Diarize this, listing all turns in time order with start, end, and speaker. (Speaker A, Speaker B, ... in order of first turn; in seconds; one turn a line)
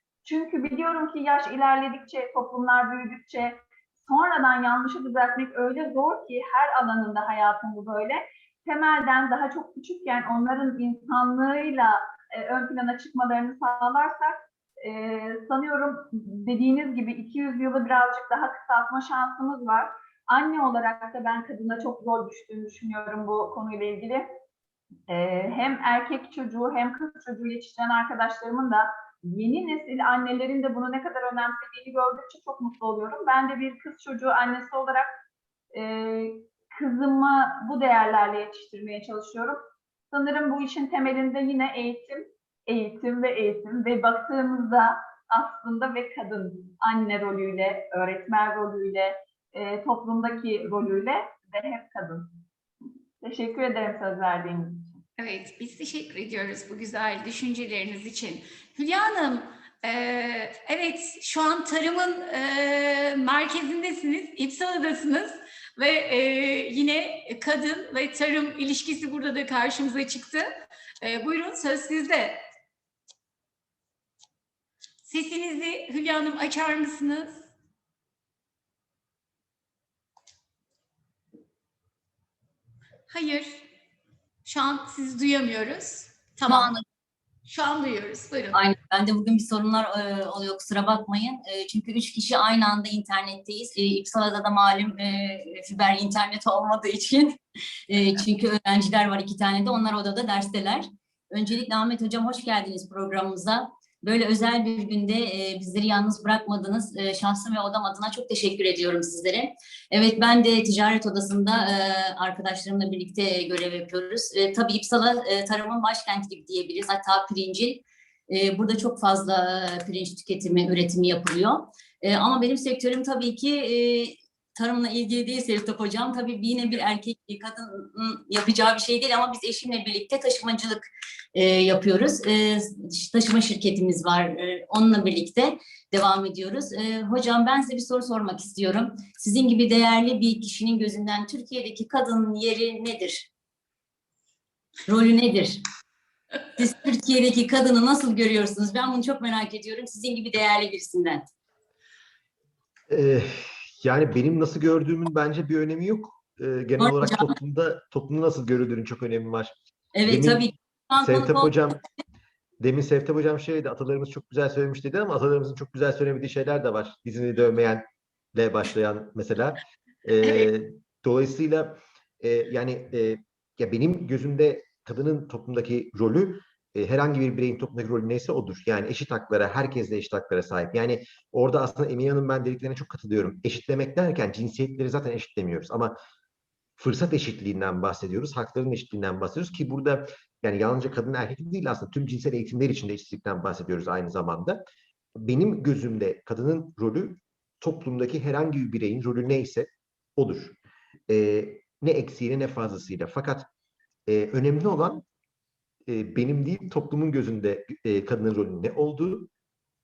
Speaker A: 0.2-24.3
Speaker A: 25.1-35.1
Speaker A: 35.7-52.4
Speaker A: 53.2-54.9
Speaker B: 55.2-70.5
Speaker B: 71.0-72.4
Speaker B: 75.0-77.5
Speaker B: 83.1-83.6
Speaker B: 84.4-86.7
Speaker C: 86.5-86.8
Speaker B: 87.5-88.6
Speaker C: 88.5-143.3
Speaker C: 144.9-145.6
Speaker C: 146.6-151.3
Speaker D: 152.9-159.5
Speaker C: 156.8-157.3
Speaker C: 159.9-161.5
Speaker D: 160.1-160.4
Speaker D: 161.0-161.8
Speaker D: 162.6-185.9
Speaker B: 170.2-170.5
Speaker D: 186.8-194.6
Speaker D: 195.2-200.6
Speaker D: 201.1-203.5
Speaker D: 204.1-205.0
Speaker D: 205.9-209.3